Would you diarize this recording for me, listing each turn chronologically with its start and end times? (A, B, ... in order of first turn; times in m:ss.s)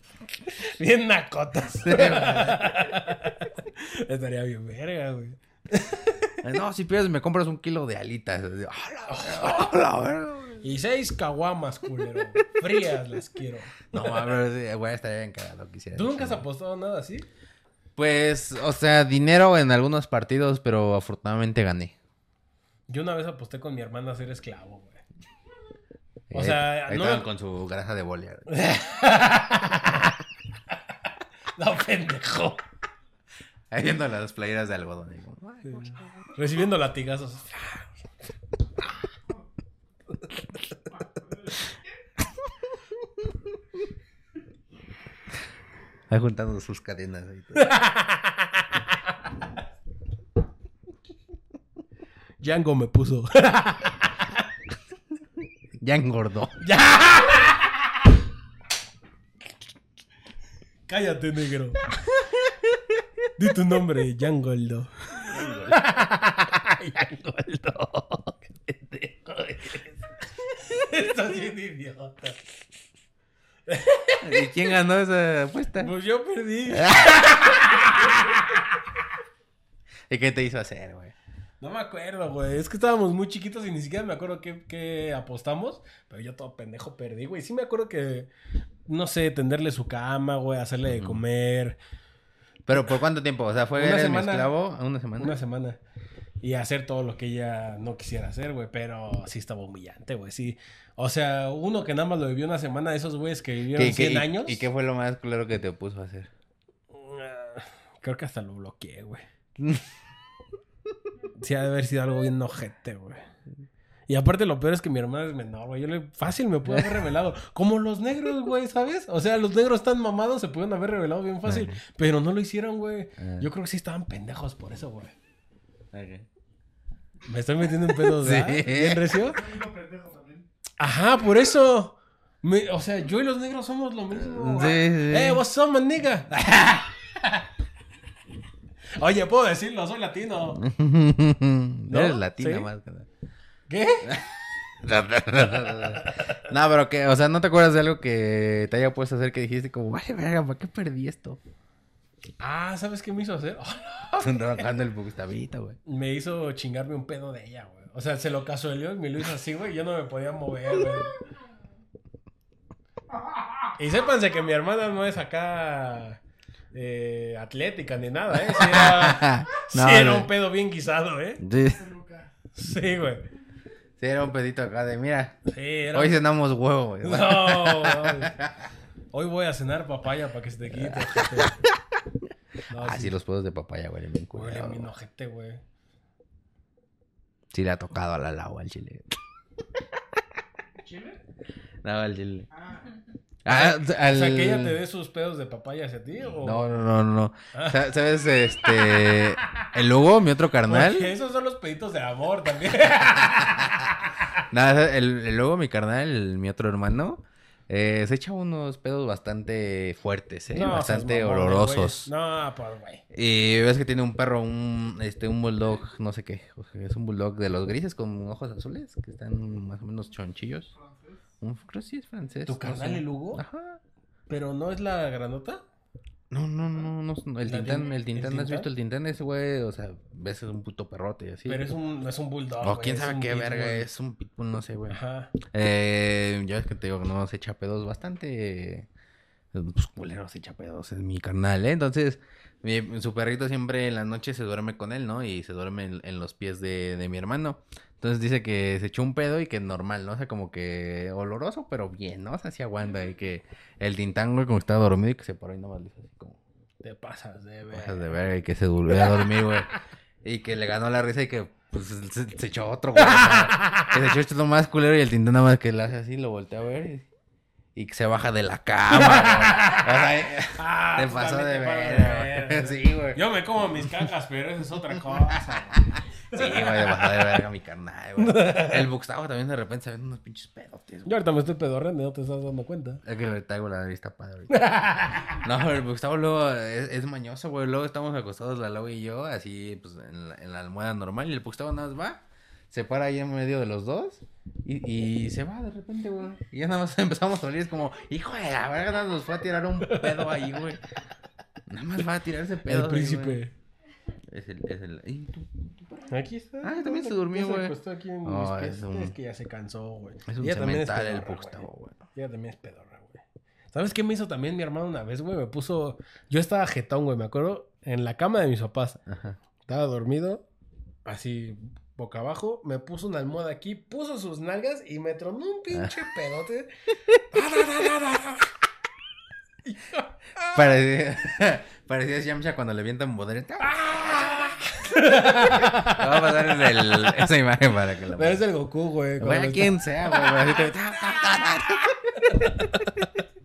0:00.4-0:06.4 A
0:01.8-0:02.7 B
0:06.4-0:10.6 B
0:09.1-0:09.7 A
0:10.6-0:14.2 A
0:13.9-0:16.4 B
0:15.9-0:17.2 A
0:18.0-0:22.0 B
0:22.9-0:25.0 A
0:26.3-0:28.5 B
0:26.3-0:27.3 A
0:28.5-0:30.2 A
0:31.6-0:32.6 A
0:33.7-0:36.3 B
0:35.6-0:37.9 A
0:46.1-0:47.7 B
0:47.6-0:48.7 A
0:52.4-0:54.3 A
0:55.8-0:56.6 B
0:56.6-0:58.0 A
1:00.9-1:02.6 A
1:03.4-1:10.0 A
1:05.3-1:05.8 B
1:10.5-1:12.4 A
1:13.7-1:14.5 A
1:14.2-1:15.9 B
1:15.8-1:18.6 A
1:16.7-1:18.4 B
1:20.1-1:21.1 B
1:21.6-1:28.3 A
1:28.9-1:31.8 A
1:30.8-1:31.2 B
1:32.6-1:35.4 B
1:33.7-1:34.5 A
1:35.2-1:35.8 A
1:36.4-1:44.7 A
1:43.7-1:46.3 B
1:46.9-1:49.2 A
1:49.6-1:49.9 B
1:51.4-1:53.2 A
1:54.1-2:05.1 A
1:56.7-1:57.0 B
2:01.4-2:01.8 B
2:03.2-2:03.5 B
2:05.9-2:06.3 B
2:07.3-2:09.5 A
2:07.9-2:09.1 B
2:09.2-2:10.5 C
2:10.8-2:17.5 A
2:14.1-2:15.4 B
2:16.3-2:16.7 B
2:19.0-2:20.6 A
2:20.6-2:23.1 B
2:21.9-2:22.7 A
2:23.7-2:24.2 A
2:24.0-2:31.4 B
2:26.0-2:26.4 A
2:32.4-2:34.4 A
2:34.2-2:35.8 B
2:35.8-2:41.2 A
2:43.8-2:46.2 A
2:46.7-2:51.4 A
2:48.4-2:50.3 B
2:51.4-2:51.9 B
2:51.6-2:52.3 C
2:52.5-2:53.2 A
2:54.0-2:55.4 B
2:55.5-2:56.2 A
2:55.9-2:58.6 B
2:57.0-2:58.3 A
2:59.1-3:01.6 A
3:00.7-3:01.6 B
3:02.7-3:03.2 A
3:02.7-3:04.9 B
3:04.3-3:05.6 A
3:07.5-3:09.1 B
3:10.8-3:11.2 C
3:11.8-3:12.5 B
3:12.5-3:12.9 C
3:13.4-3:14.8 B
3:13.5-3:16.8 A
3:16.2-3:21.1 B
3:17.5-3:17.9 A
3:18.6-3:19.7 A
3:20.7-3:24.4 A
3:23.2-3:23.7 B
3:24.4-3:32.1 B
3:30.5-3:33.0 A
3:33.1-3:40.7 B
3:40.7-3:41.4 C
3:41.4-3:43.8 B
3:42.4-3:43.4 A
3:44.3-3:45.6 A
3:46.3-3:51.6 B
3:47.4-3:48.7 A
3:51.4-3:53.8 A
3:52.6-3:58.9 B
3:54.9-3:55.3 A
3:59.5-4:16.4 B
4:16.8-4:18.2 A
4:17.7-4:19.7 B
4:18.9-4:19.8 A
4:20.2-4:27.0 B
4:23.0-4:23.9 A
4:27.7-4:33.2 B
4:28.9-4:37.3 A
4:35.1-4:35.4 B
4:36.3-4:41.1 B
4:38.2-4:38.9 A
4:41.0-4:43.0 A
4:43.0-4:44.6 B
4:44.5-4:45.4 A
4:45.3-5:00.8 B
4:59.8-5:00.4 A
5:01.7-5:03.4 B
5:02.6-5:03.5 A
5:04.3-5:06.1 B
5:06.1-5:19.0 A
5:06.6-5:09.1 B
5:10.3-5:12.0 B
5:19.1-5:19.4 B
5:19.6-5:20.4 A
5:21.0-5:26.7 A
5:27.3-5:28.5 A
5:29.6-5:30.6 A
5:30.4-5:34.4 B
5:33.7-5:37.1 A
5:35.4-5:38.4 B
5:38.1-5:40.6 A
5:39.2-5:42.7 B
5:42.1-5:43.1 A